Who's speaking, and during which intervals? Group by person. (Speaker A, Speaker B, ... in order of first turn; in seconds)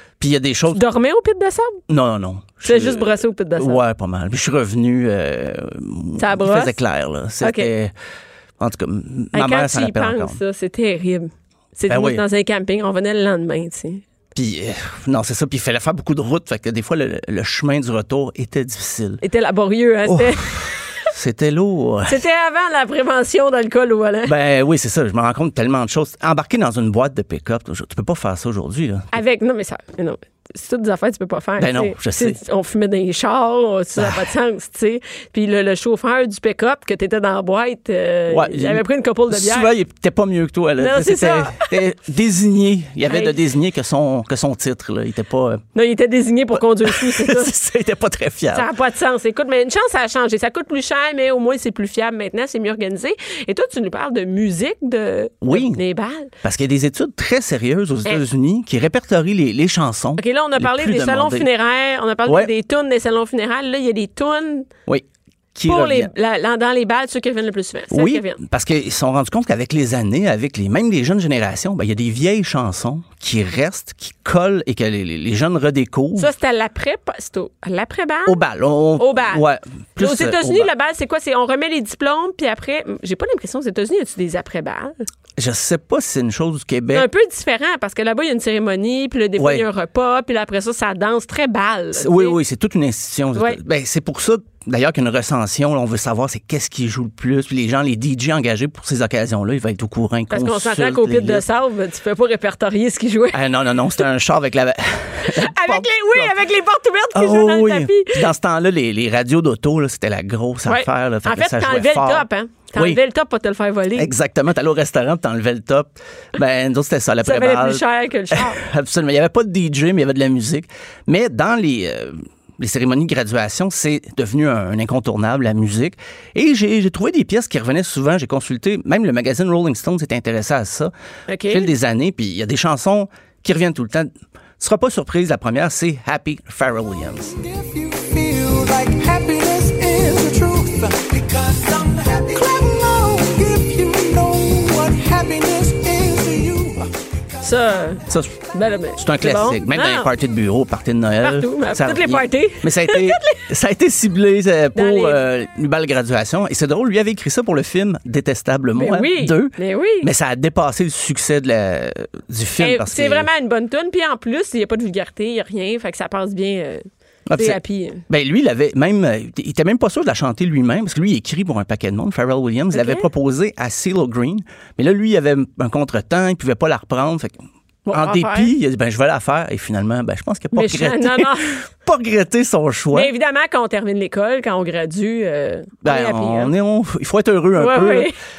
Speaker A: 0.2-0.8, 1.9-7.9, 8.6-10.4, 11.9-12.2, 14.3-19.2, 20.1-22.2, 24.2-29.1, 31.6-32.4, 38.3-45.6, 46.5-48.7, 55.4-55.8, 56.4-61.5, 64.9-66.1, 67.9-76.3, 78.3-80.7, 85.4-87.1, 89.4-89.6, 92.0-101.4, 103.3-106.4, 107.1-113.0, 114.0-130.9, 131.5-137.3, 148.1-148.3, 149.0-163.3, 167.3-177.3, 177.9-183.1, 185.8-188.1
Speaker B: 0.7-1.8, 2.6-3.8, 6.2-6.7, 7.4-7.7, 9.3-14.0, 19.2-21.1, 22.1-24.3, 29.1-39.7, 40.8-41.6, 43.1-43.4, 45.7-47.5, 48.5-56.3, 60.2-64.7, 65.7-68.4, 76.2-78.4, 79.0-79.4, 80.0-85.0, 86.9-92.4, 100.3-103.4, 105.2-108.2, 110.7-114.1, 117.2-118.6, 131.3-131.7, 147.4-148.0, 148.5-150.1, 151.2-153.4, 154.7-155.2, 158.7-160.1, 162.6-168.0, 172.7-173.1, 177.9-178.5, 180.5-181.6, 182.9-186.5, 187.6-188.1
Speaker C: 137.4-146.9